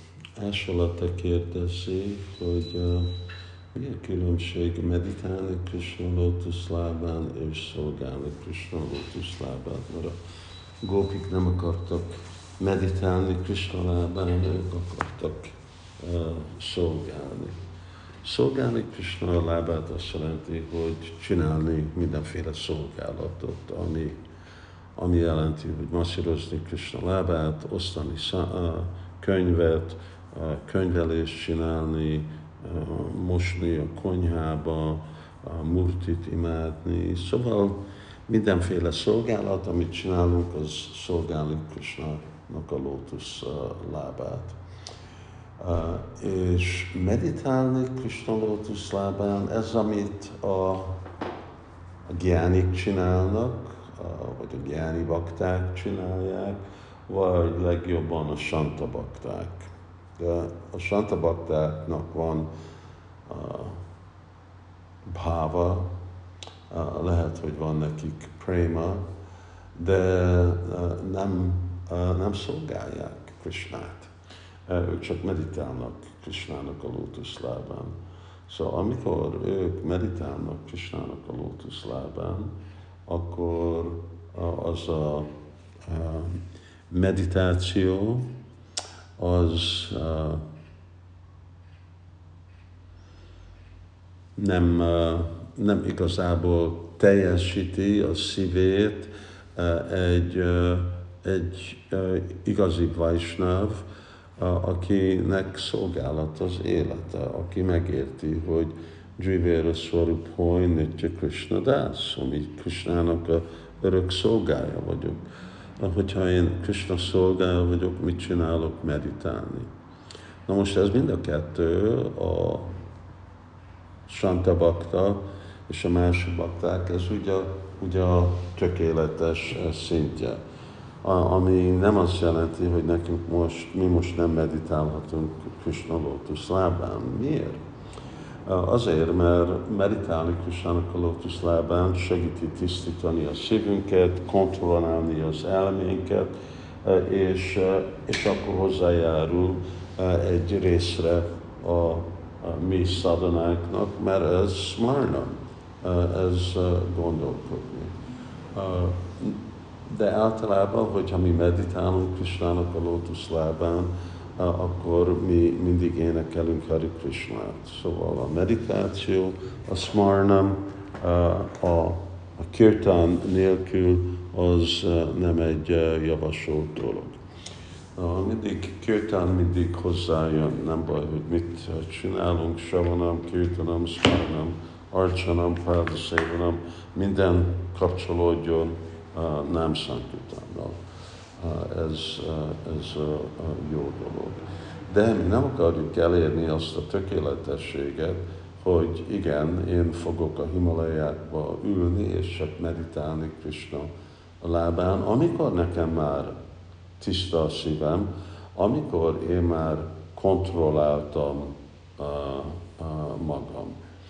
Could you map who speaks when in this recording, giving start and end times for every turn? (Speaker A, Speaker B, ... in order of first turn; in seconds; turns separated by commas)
Speaker A: 0.4-3.1, Speaker A: 3.7-10.2, Speaker A: 10.8-17.6, Speaker A: 18.2-24.2, Speaker A: 25.0-44.6, Speaker A: 45.6-51.0, Speaker A: 52.1-62.5, Speaker A: 63.3-63.8, Speaker A: 65.1-65.9, Speaker A: 66.7-69.0, Speaker A: 69.8-74.1, Speaker A: 74.7-78.0, Speaker A: 78.5-82.5, Speaker A: 83.1-85.3, Speaker A: 85.8-88.3, Speaker A: 89.2-90.5, Speaker A: 94.4-103.8, Speaker A: 104.4-115.2, Speaker A: 115.8-119.7, Speaker A: 120.5-122.8, Speaker A: 124.1-130.4, Speaker A: 131.0-137.6, Speaker A: 138.5-146.3, Speaker A: 146.8-157.9, Speaker A: 158.5-177.2, Speaker A: 178.0-190.8, Speaker A: 191.4-203.9, Speaker A: 204.4-206.4, Speaker A: 207.0-213.8